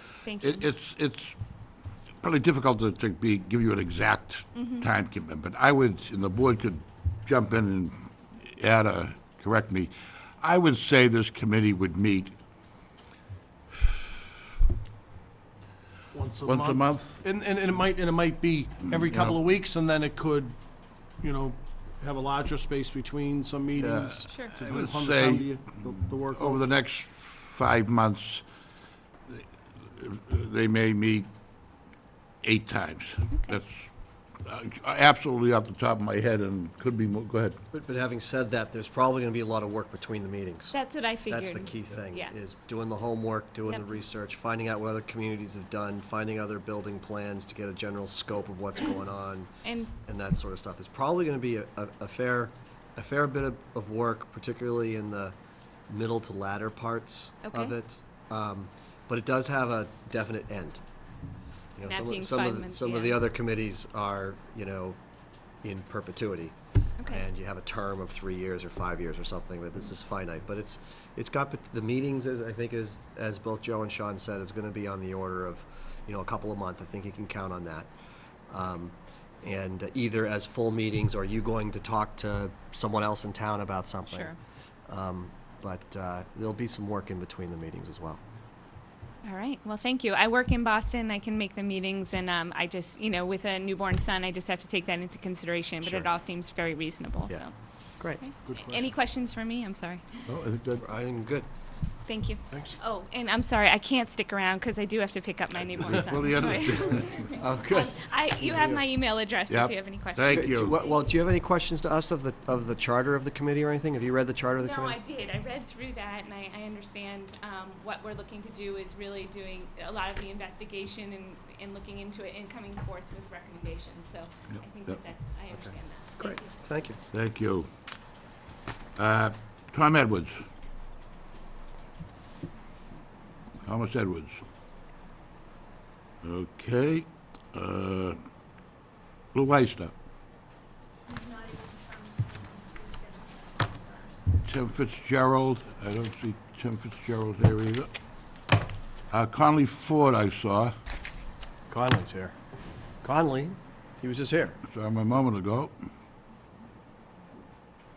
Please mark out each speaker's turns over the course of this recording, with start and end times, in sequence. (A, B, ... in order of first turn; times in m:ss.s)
0:00.2-0:00.7 A
0:00.4-0:01.3 B
0:02.2-0:12.3 B
0:04.6-0:04.8 A
0:16.1-0:20.6 C
0:16.4-0:17.2 B
0:19.0-0:19.4 B
0:21.2-0:26.6 C
0:23.8-0:25.5 B
0:26.3-0:28.4 B
0:29.3-0:31.3 B
0:32.4-0:33.8 B
0:34.4-0:37.6 B
0:37.7-0:49.5 D
0:40.7-0:42.3 A
0:43.7-0:44.0 A
0:49.6-0:49.9 A
0:50.0-0:55.3 D
0:55.9-1:00.8 D
0:57.4-0:57.8 A
1:01.8-1:05.0 D
1:01.8-1:03.2 A
1:05.6-1:17.9 D
1:07.0-1:07.3 A
1:18.5-1:24.4 D
1:24.1-1:24.4 A
1:24.9-1:28.2 D
1:29.2-1:37.5 A
1:35.8-1:36.1 D
1:38.2-1:40.2 A
1:38.4-1:38.9 C
1:40.2-1:40.8 B
1:40.8-1:41.5 D
1:42.0-1:51.1 A
1:45.8-1:47.2 B
1:47.4-1:48.8 D
1:49.5-1:50.8 B
1:50.2-1:55.0 D
1:54.6-2:06.7 A
2:04.5-2:05.0 B
2:05.5-2:07.0 D
2:07.1-2:07.7 B
2:09.0-2:10.3 B
2:13.6-2:14.4 B
2:16.2-2:18.2 B
2:19.3-2:19.9 B
2:24.4-2:27.9 B
2:29.1-2:30.7 B
2:31.7-2:32.4 D
2:33.0-2:34.6 D
2:34.6-2:35.7 B